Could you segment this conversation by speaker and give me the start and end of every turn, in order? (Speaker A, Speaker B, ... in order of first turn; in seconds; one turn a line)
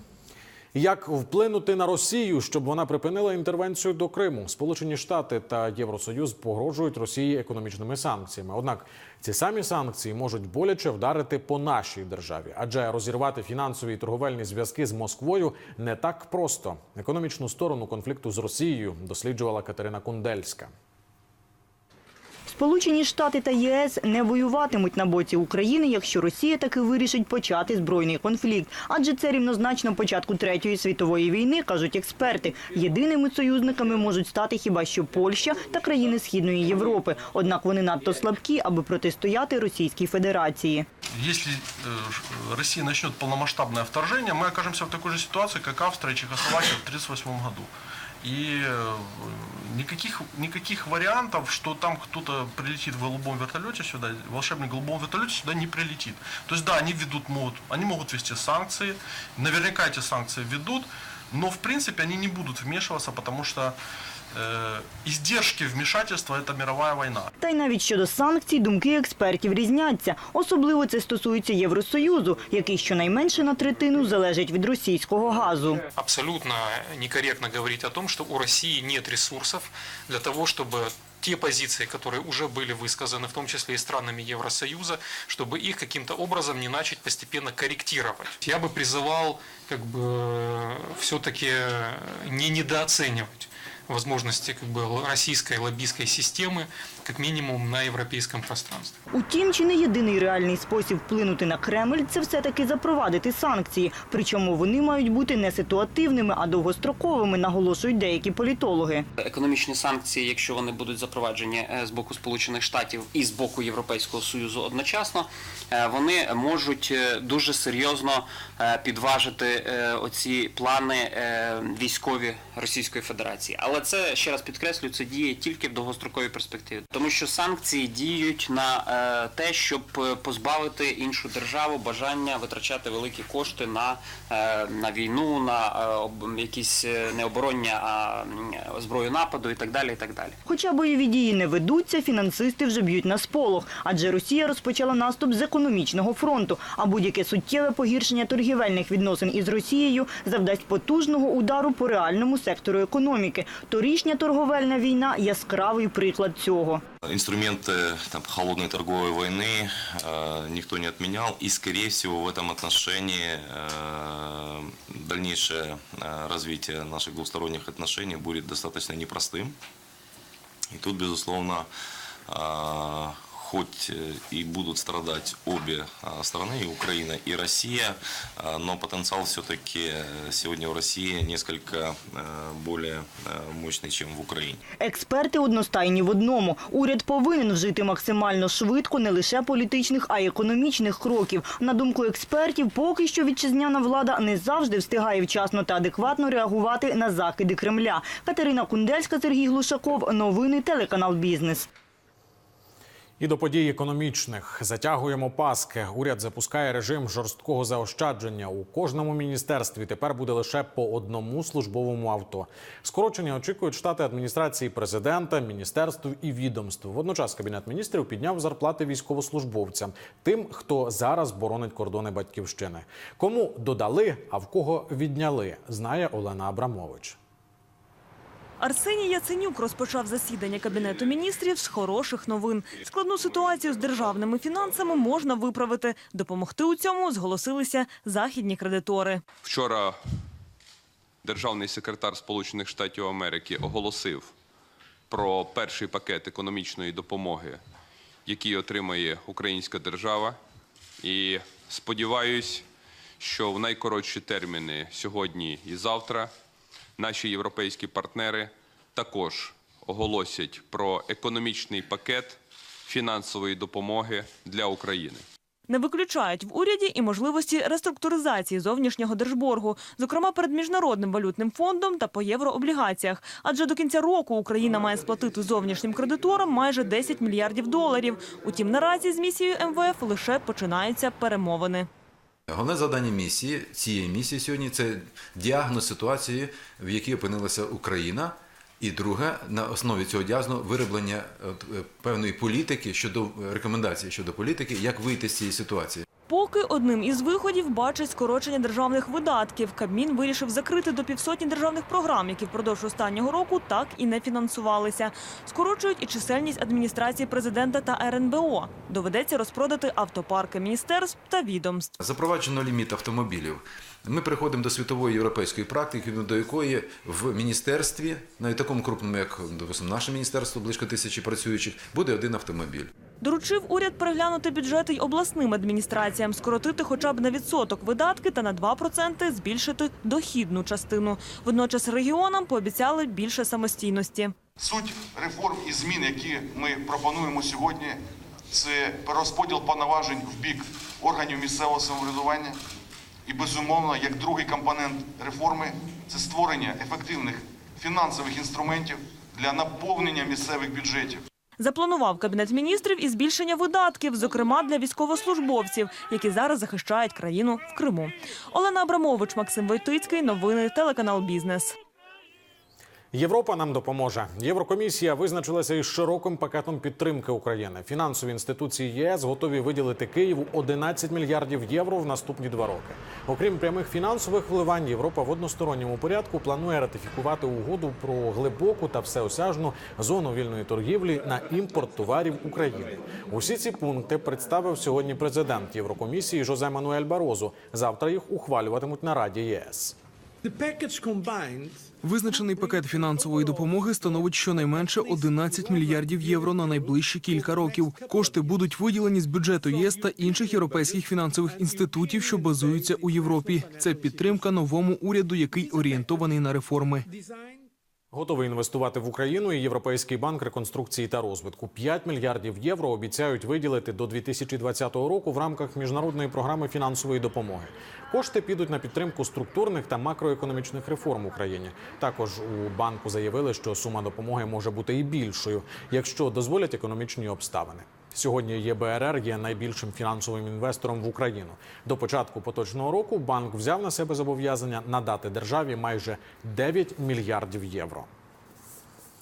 Speaker A: 0.7-20.7
Speaker B: 22.4-40.9
Speaker C: 41.1-63.8
Speaker C: 64.3-67.3
Speaker B: 67.4-75.8
Speaker D: 76.0-99.0
Speaker B: 99.1-109.0
Speaker E: 109.2-140.4
Speaker B: 140.4-156.8
Speaker F: 157.0-169.6
Speaker F: 170.7-171.7
Speaker F: 172.3-184.6
Speaker B: 184.8-201.7
Speaker A: 203.2-227.2
Speaker G: 228.6-239.2
Speaker H: 239.4-240.0
Speaker H: 241.2-244.3
Speaker H: 245.1-247.6
Speaker H: 248.2-250.4
Speaker H: 251.0-252.7
Speaker H: 253.2-256.3
Speaker H: 257.0-265.2
Speaker G: 265.7-281.9
Speaker I: 282.5-296.0
Speaker G: 296.3-311.9
Speaker I: 312.0-322.9
Speaker G: 323.2-334.3
Speaker J: 334.6-342.6
Speaker J: 343.3-351.2
Speaker G: 351.6-361.8
Speaker A: 363.1-390.0
Speaker K: 392.0-407.1
Speaker A: 408.1-438.1